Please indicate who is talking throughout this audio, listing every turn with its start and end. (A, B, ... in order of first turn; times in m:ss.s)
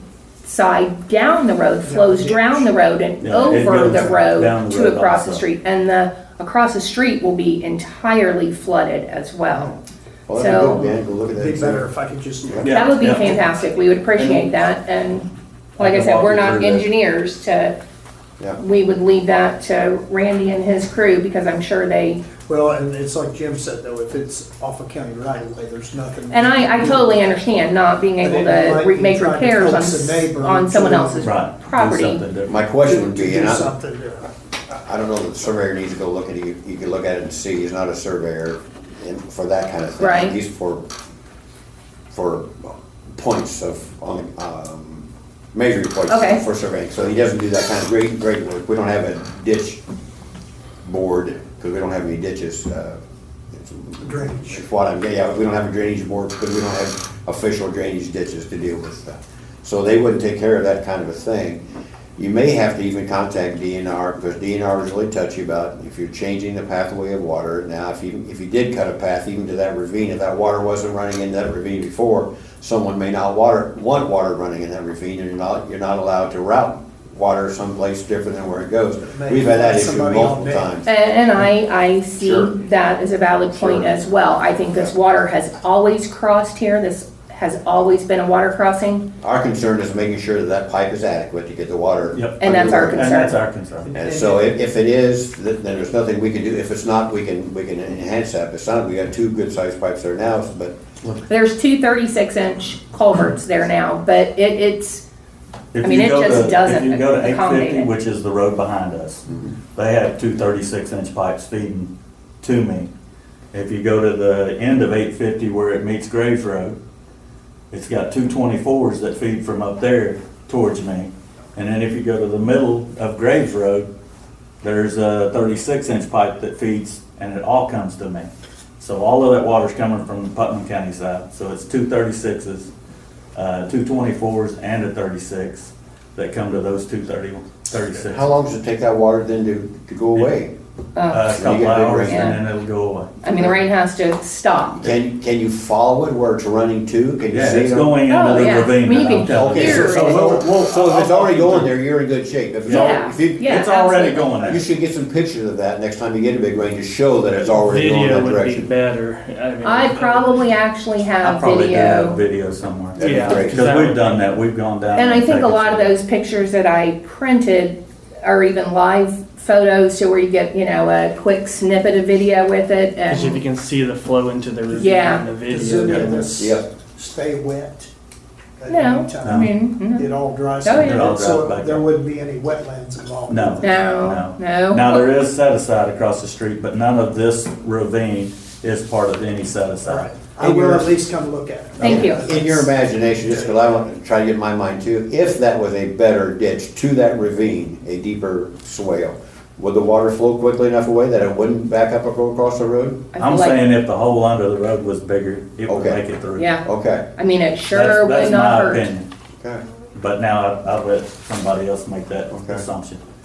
0:00.4-0:09.8 A
0:01.8-0:02.7 B
0:03.2-0:05.4 C
0:10.3-0:11.9 D
0:10.3-0:10.8 A
0:11.3-0:13.5 B
0:12.6-0:13.4 C
0:12.7-0:17.8 A
0:14.2-0:14.5 C
0:15.8-0:16.9 C
0:18.6-0:22.2 A
0:22.5-0:27.2 B
0:26.3-0:32.2 A
0:28.2-0:31.3 B
0:31.2-0:32.6 C
0:32.5-0:33.7 D
0:32.8-0:34.3 B
0:34.7-0:40.9 D
0:40.0-0:40.4 A
0:42.1-0:49.8 D
0:46.1-0:46.4 A
0:50.8-0:53.0 D
0:53.5-1:01.6 D
0:54.0-0:54.6 B
1:02.2-1:20.9 D
1:19.1-1:20.7 B
1:20.8-1:29.1 A
1:22.2-1:22.5 D
1:23.5-1:23.9 D
1:29.2-1:33.1 D
1:32.1-1:33.9 C
1:32.4-1:33.4 A
1:33.8-1:34.5 B
1:33.9-1:40.8 D
1:41.3-1:45.0 A
1:45.7-1:51.9 C
1:45.8-1:47.9 A
1:52.4-1:52.9 C
1:53.5-1:56.8 C
1:57.7-2:03.9 C
2:04.6-2:08.3 C
2:08.8-2:12.7 C
2:13.4-2:18.3 C
2:18.0-2:20.5 D
2:21.0-2:21.4 A
2:21.1-2:23.2 C
2:21.4-2:22.4 D
2:22.1-2:22.4 A
2:23.2-2:24.8 A
2:24.8-2:28.0 D
2:27.3-2:31.7 C
2:28.1-2:30.4 A
2:29.3-2:33.6 D
2:32.6-2:34.6 C
2:32.7-2:34.6 A
2:34.4-2:38.7 D
2:37.4-2:40.5 E
2:39.6-2:42.2 A
2:41.2-2:45.9 C
2:43.0-2:43.6 D
2:43.0-2:44.2 E
2:45.0-2:53.4 A
2:53.1-2:56.5 E
2:54.7-2:55.2 A
2:55.4-2:57.9 B
2:55.8-2:56.1 C
2:56.4-2:56.6 D
2:58.6-3:03.8 B
2:58.7-3:00.1 A
2:59.2-2:59.5 C
3:00.6-3:01.1 A
3:00.7-3:01.9 C
3:03.3-3:10.9 C
3:03.6-3:05.0 A
3:09.8-3:13.6 B
3:11.8-3:12.1 C
3:11.8-3:12.2 A
3:11.8-3:23.1 D
3:23.1-3:23.6 A
3:23.2-3:26.5 C
3:25.7-3:26.0 D
3:26.4-3:28.9 A
3:26.6-3:27.1 D
3:27.7-3:29.1 C
3:29.9-3:33.0 C
3:32.3-3:32.6 D